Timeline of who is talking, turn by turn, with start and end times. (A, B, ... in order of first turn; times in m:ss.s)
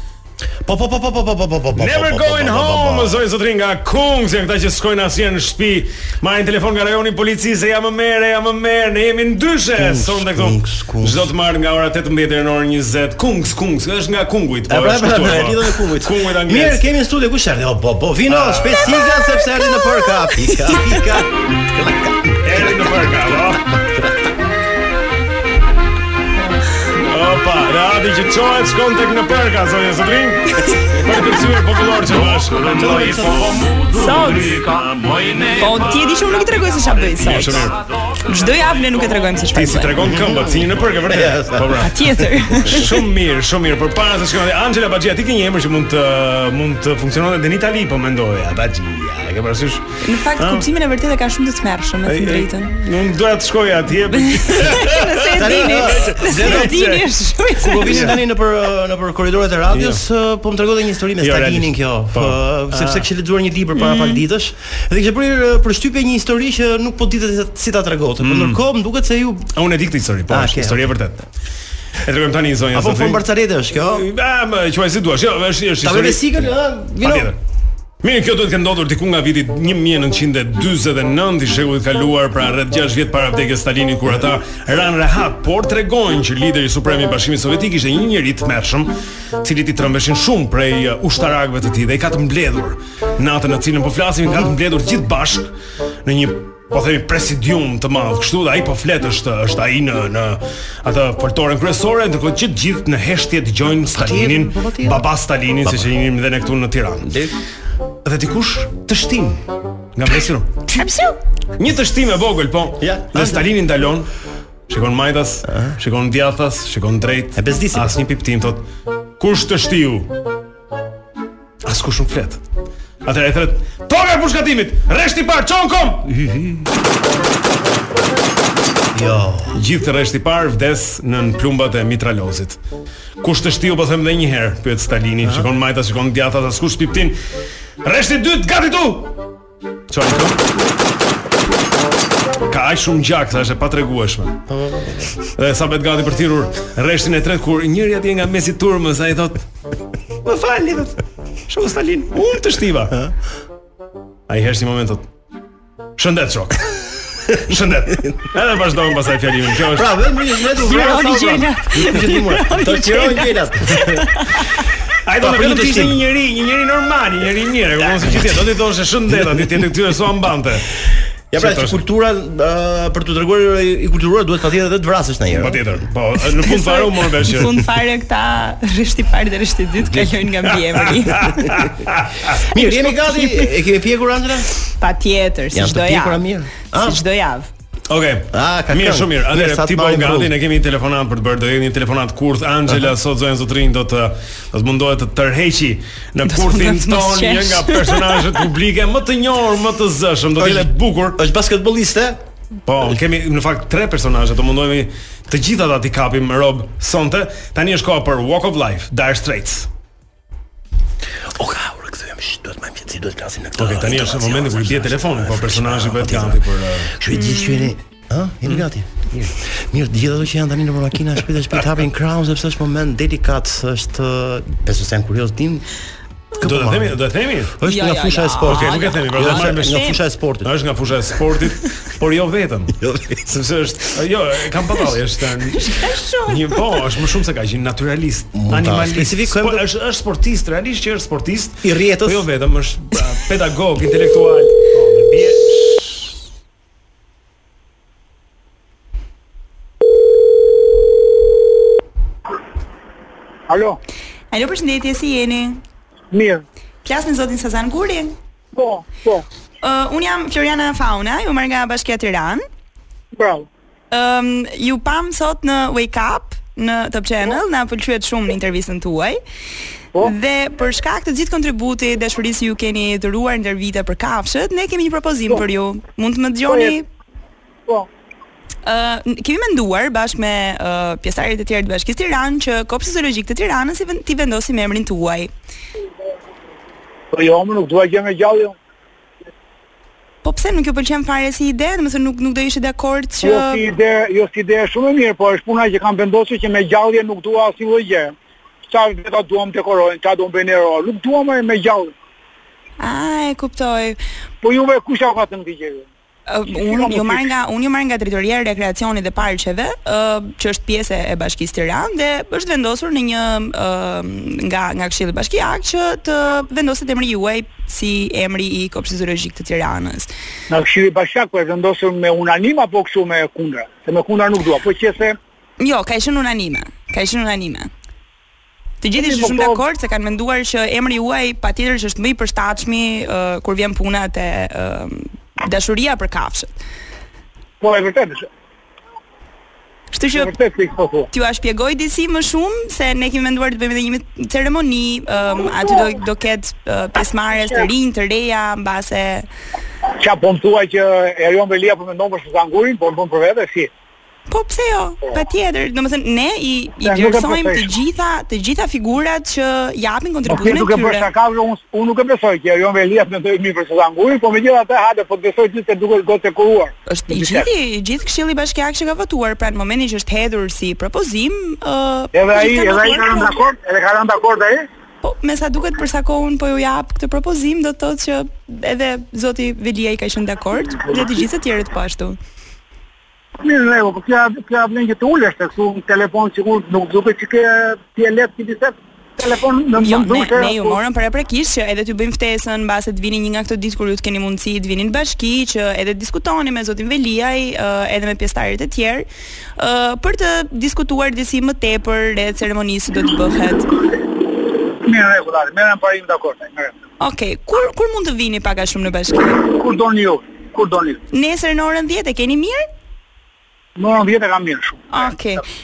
0:00.6-0:03.2 A
0:01.8-0:16.8 B
0:09.8-0:11.3 A
0:14.7-0:24.3 A
0:18.3-0:19.1 B
0:22.4-0:23.6 B
0:27.0-0:33.2 B
0:32.6-0:33.9 A
0:33.9-0:34.6 C
0:35.5-0:37.6 C
0:37.2-0:37.7 B
0:38.2-0:39.9 C
0:39.5-0:41.9 B
0:40.0-0:42.3 A
0:41.8-0:42.8 C
0:42.6-0:49.8 B
0:50.0-0:52.7 C
0:50.4-0:50.6 B
0:52.0-0:57.1 B
0:54.4-0:58.0 C
0:55.3-0:56.8 A
0:57.6-1:09.5 A
0:57.9-0:58.2 B
0:59.7-1:00.0 B
1:01.2-1:03.1 B
1:03.8-1:04.2 C
1:08.2-1:08.6 B
1:09.5-1:11.2 B
1:10.3-1:10.9 A
1:12.0-1:17.4 B
1:12.7-1:14.0 A
1:15.8-1:17.3 A
1:18.0-1:35.5 B
1:36.0-1:47.1 B
1:43.9-1:45.0 A
1:47.0-1:47.4 A
1:48.0-1:49.4 B
1:49.9-1:50.6 B
1:50.7-1:51.2 C
1:51.6-1:54.1 B
1:52.8-1:53.5 A
1:54.7-1:58.6 B
1:55.5-1:55.7 A
1:57.4-1:57.9 A
1:59.2-2:00.1 B
2:01.6-2:02.4 B
2:03.0-2:06.3 B
2:08.9-2:09.6 A
2:09.5-2:12.6 B
2:13.2-2:17.1 B
2:15.2-2:15.5 A
2:17.8-2:19.2 B
2:19.9-2:20.4 B
2:22.5-2:24.4 B
2:24.5-2:25.1 A
2:25.4-2:29.4 B
2:30.2-2:31.0 B
2:31.5-2:33.0 B
2:34.3-2:35.0 B
2:36.0-2:36.6 B
2:37.3-2:39.9 B
2:39.7-2:44.0 A
2:40.6-2:44.4 C
2:45.0-2:50.7 B
2:45.2-2:46.0 A
2:51.3-2:55.6 A
2:51.4-2:51.8 B
2:55.3-2:57.5 B
2:56.5-3:01.6 C
3:00.7-3:02.4 B
3:02.5-3:04.5 A
3:02.5-3:03.5 C
3:04.8-3:07.5 C
3:05.5-3:07.0 A
3:07.9-3:21.2 B
3:08.3-3:10.3 A
3:16.3-3:18.4 C
3:20.4-3:22.2 A
3:22.6-3:29.7 B
3:31.3-3:38.9 A
3:33.6-3:36.9 B
3:37.1-3:37.7 C
3:38.4-3:39.3 B
3:39.4-3:45.6 A
3:46.4-3:50.5 A
3:46.4-3:47.5 B
3:47.6-3:50.0 C
3:48.4-3:55.7 B
3:52.8-3:53.3 A
3:55.6-3:56.6 C
3:56.2-4:06.0 B
3:58.3-3:59.6 A
4:01.6-4:02.2 A
4:13.5-4:13.8 D
4:14.3-4:15.6 C
4:16.1-4:16.4 D
4:16.8-4:18.1 C
4:18.5-4:19.2 D
4:19.6-4:22.4 C
4:23.1-4:23.5 D
4:23.9-4:29.2 C
4:30.0-4:36.8 C
4:36.5-4:36.7 D
4:38.6-4:45.3 C
4:47.1-4:48.5 D
4:50.2-4:53.6 C
4:53.2-4:58.1 D
4:58.7-5:01.9 D
5:02.8-5:04.0 C
5:04.4-5:05.9 D
5:06.3-5:20.1 C
5:06.5-5:07.3 D
5:20.5-5:25.2 D
5:25.6-5:27.7 C
5:28.8-5:36.5 C
5:29.0-5:29.6 D
5:37.6-5:38.3 D
5:39.9-5:40.3 C
5:40.1-5:41.1 D
5:41.1-5:49.3 C
5:50.0-5:53.7 D
5:54.3-6:01.1 C
5:56.8-5:57.7 D
6:00.3-6:07.5 D
6:06.9-6:13.3 C
6:12.1-6:14.6 D
6:15.0-6:22.2 C
6:23.4-6:30.8 D
6:29.8-6:43.7 C
6:44.7-6:46.7 D
6:47.0-6:49.5 C
6:49.4-6:51.0 D
6:51.1-6:52.6 C
6:53.8-6:55.0 D
6:54.9-6:55.4 C